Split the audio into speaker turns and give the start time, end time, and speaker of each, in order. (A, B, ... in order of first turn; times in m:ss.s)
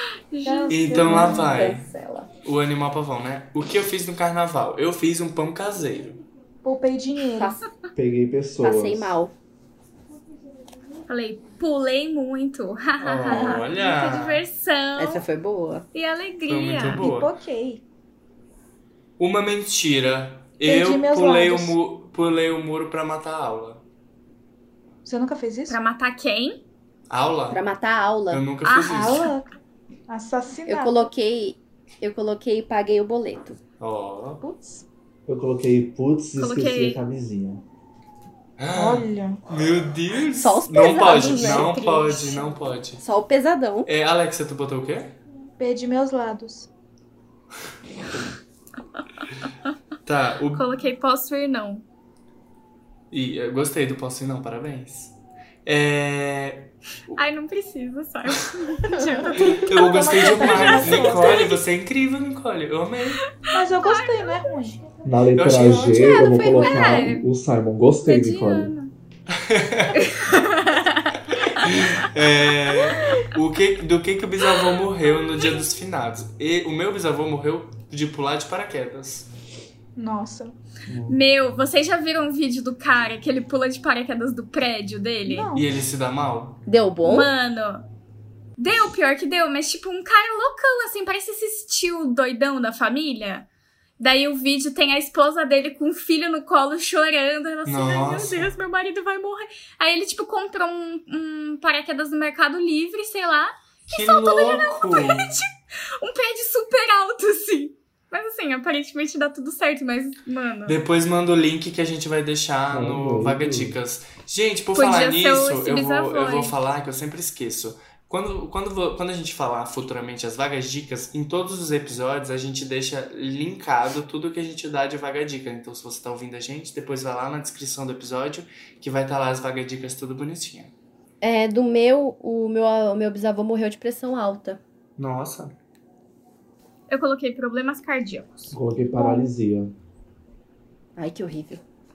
0:00.3-0:01.4 A
0:00.4-0:01.5 B
0:00.7-0:01.9 C
0:01.0-0:02.3 D
0:02.4-0:06.2 C
0:06.6-0:07.6 B
0:08.0-0:09.2 E
0:08.6-0:09.3 D
0:11.1-0:15.2 A
0:13.0-0:14.4 C
0:15.0-0:15.9 D
0:15.9-0:17.0 A
0:16.4-0:17.3 C
0:17.0-0:17.8 B
0:19.2-0:23.8 C
0:20.6-0:21.8 B
0:25.0-0:25.8 B
0:25.7-0:26.6 A
0:27.1-0:27.6 C
0:27.5-0:28.4 D
0:28.3-0:29.3 C
0:28.6-0:29.3 A
0:28.9-0:29.5 B
0:30.1-0:31.1 B
0:30.7-0:33.6 D
0:33.8-0:34.4 C
0:34.5-0:34.8 D
0:35.3-0:37.6 E
0:36.4-0:37.0 A
0:38.6-0:43.0 C
0:38.7-0:39.4 B
0:40.3-0:42.5 D
0:43.0-0:43.9 D
0:43.9-0:45.2 C
0:45.6-0:46.7 B
0:50.1-0:50.7 C
0:50.5-0:51.8 A
0:53.1-0:55.1 C
0:55.6-0:57.2 C
0:57.2-1:01.6 A
0:59.3-1:01.5 B
0:59.4-1:03.2 C
1:03.4-1:04.3 A
1:03.5-1:04.9 B
1:05.0-1:08.7 E
1:05.3-1:06.0 C
1:05.9-1:07.1 D
1:06.0-1:07.2 A
1:08.0-1:08.9 A
1:09.3-1:10.2 C
1:10.0-1:11.1 A
1:11.4-1:19.3 C
1:20.0-1:20.6 B
1:20.9-1:21.2 E
1:21.1-1:25.5 A
1:25.3-1:25.7 B
1:25.5-1:26.6 C
1:26.7-1:27.3 D
1:27.0-1:27.8 A
1:28.6-1:33.5 A
1:34.0-1:50.8 A
1:37.7-1:38.5 C
1:43.9-1:45.3 C
1:50.7-2:10.7 C
1:52.7-1:53.8 E
1:54.8-1:56.6 A
2:11.2-2:14.6 D
2:15.0-2:15.5 C
2:16.9-2:18.5 A
2:18.5-2:19.7 E
2:19.0-2:19.2 B
2:21.0-2:21.6 D